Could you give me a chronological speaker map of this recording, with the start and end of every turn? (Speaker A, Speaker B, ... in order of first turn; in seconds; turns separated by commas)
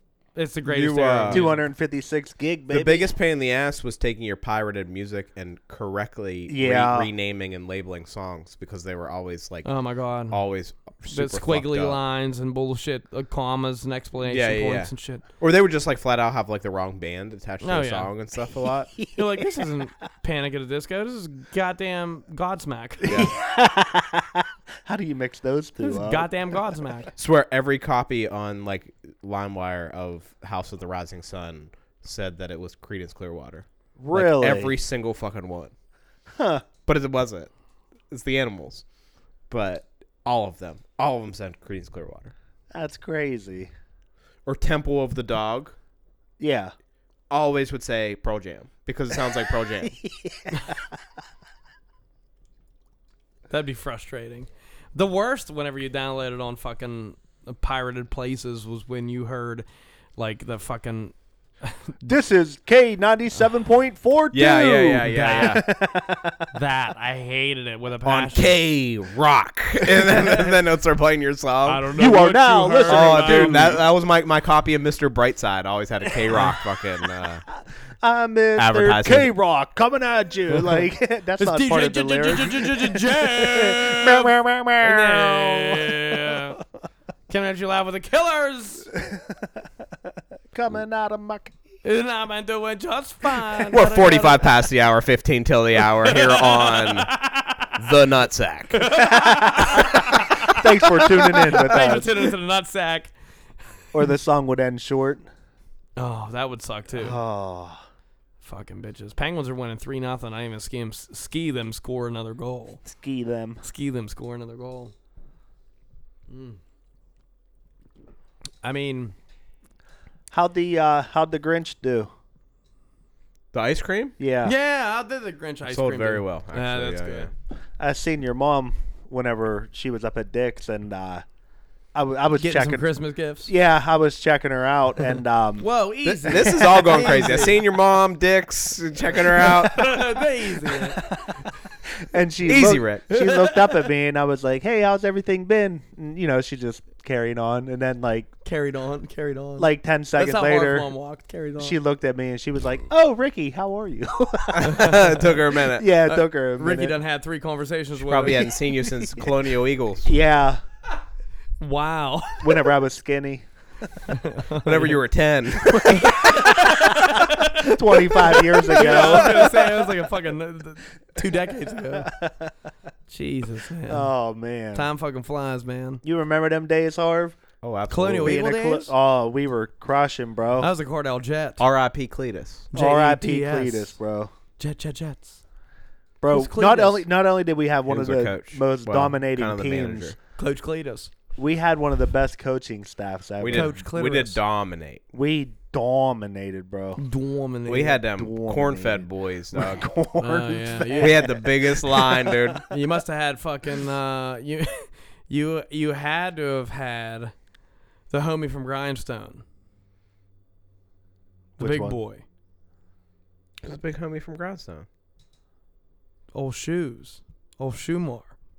Speaker A: 0.3-1.7, Speaker B: 0.7-1.5, Speaker C: 1.3-3.1, Speaker B: 2.7-9.7, Speaker C: 6.5-7.1, Speaker A: 9.6-10.4, Speaker B: 10.3-12.0, Speaker A: 11.1-15.2, Speaker B: 14.2-18.9, Speaker A: 17.6-18.1, Speaker C: 19.0-19.7, Speaker A: 19.1-23.2, Speaker C: 23.0-26.3, Speaker B: 23.0-23.3, Speaker A: 25.8-27.1, Speaker B: 27.2-35.7, Speaker C: 34.0-34.7, Speaker C: 36.3-36.6, Speaker B: 36.8-37.5, Speaker B: 38.1-38.8, Speaker B: 39.5-42.3, Speaker C: 42.7-43.7, Speaker B: 44.5-45.7, Speaker C: 46.4-46.7, Speaker B: 47.3-50.0, Speaker C: 49.8-50.9, Speaker A: 53.5-59.6, Speaker A: 60.2-61.9, Speaker C: 62.0-66.5, Speaker B: 64.3-65.6, Speaker A: 65.1-65.6, Speaker A: 66.5-68.6, Speaker B: 68.0-71.9, Speaker A: 70.0-70.5, Speaker A: 71.7-73.8, Speaker C: 71.9-73.8, Speaker B: 72.9-77.4, Speaker C: 78.0-86.4, Speaker B: 78.6-79.3, Speaker A: 81.4-86.6, Speaker A: 87.3-88.9, Speaker C: 89.0-89.5, Speaker C: 90.5-91.5, Speaker A: 91.8-94.4, Speaker B: 93.7-97.2, Speaker A: 96.0-97.8, Speaker B: 97.7-98.8, Speaker A: 98.7-103.1, Speaker C: 99.0-102.3, Speaker C: 103.9-105.2, Speaker A: 106.0-107.2, Speaker C: 106.9-107.8, Speaker A: 108.4-112.8, Speaker C: 112.8-113.6, Speaker A: 113.6-114.9, Speaker A: 116.3-116.6, Speaker A: 118.6-119.1, Speaker C: 120.3-122.1, Speaker B: 123.5-124.1, Speaker C: 124.2-124.5, Speaker A: 124.4-127.3, Speaker B: 125.7-127.3, Speaker C: 127.8-131.2, Speaker C: 131.9-132.9, Speaker A: 132.4-133.5, Speaker C: 133.4-135.7, Speaker A: 135.6-137.6, Speaker B: 136.1-139.9, Speaker C: 136.2-137.2, Speaker A: 139.4-141.1, Speaker C: 140.6-141.4, Speaker C: 142.0-148.3, Speaker B: 142.4-143.0, Speaker A: 143.1-143.9, Speaker A: 148.4-151.8, Speaker C: 149.6-150.9, Speaker C: 151.6-155.0, Speaker B: 154.5-155.9, Speaker A: 154.7-155.2, Speaker C: 155.6-157.0, Speaker A: 156.0-158.5, Speaker B: 158.0-160.2, Speaker C: 160.0-160.6, Speaker A: 161.6-162.7, Speaker C: 162.4-163.4, Speaker A: 164.1-165.0, Speaker B: 164.6-166.5, Speaker C: 165.8-169.8, Speaker A: 165.9-172.1, Speaker B: 168.8-169.4, Speaker C: 172.0-172.5, Speaker A: 173.1-174.1, Speaker C: 173.9-174.9, Speaker A: 174.7-176.0, Speaker C: 176.0-177.4, Speaker B: 177.6-178.4, Speaker A: 177.9-178.9, Speaker C: 178.2-180.7, Speaker A: 180.6-181.6, Speaker B: 181.6-182.7, Speaker A: 182.7-183.9, Speaker C: 182.7-184.3, Speaker A: 184.6-185.4, Speaker C: 186.2-190.1, Speaker A: 186.3-187.0, Speaker B: 187.9-190.1, Speaker A: 190.4-191.1, Speaker C: 191.4-193.7, Speaker B: 193.4-195.0, Speaker A: 193.5-194.4, Speaker C: 195.1-197.0, Speaker A: 196.9-198.0, Speaker B: 197.7-199.9, Speaker C: 198.0-202.6, Speaker A: 200.2-201.3, Speaker B: 201.0-202.7, Speaker A: 202.7-207.3, Speaker A: 208.1-209.4, Speaker C: 211.6-212.0, Speaker A: 211.6-212.2, Speaker B: 213.6-214.8, Speaker A: 216.3-218.3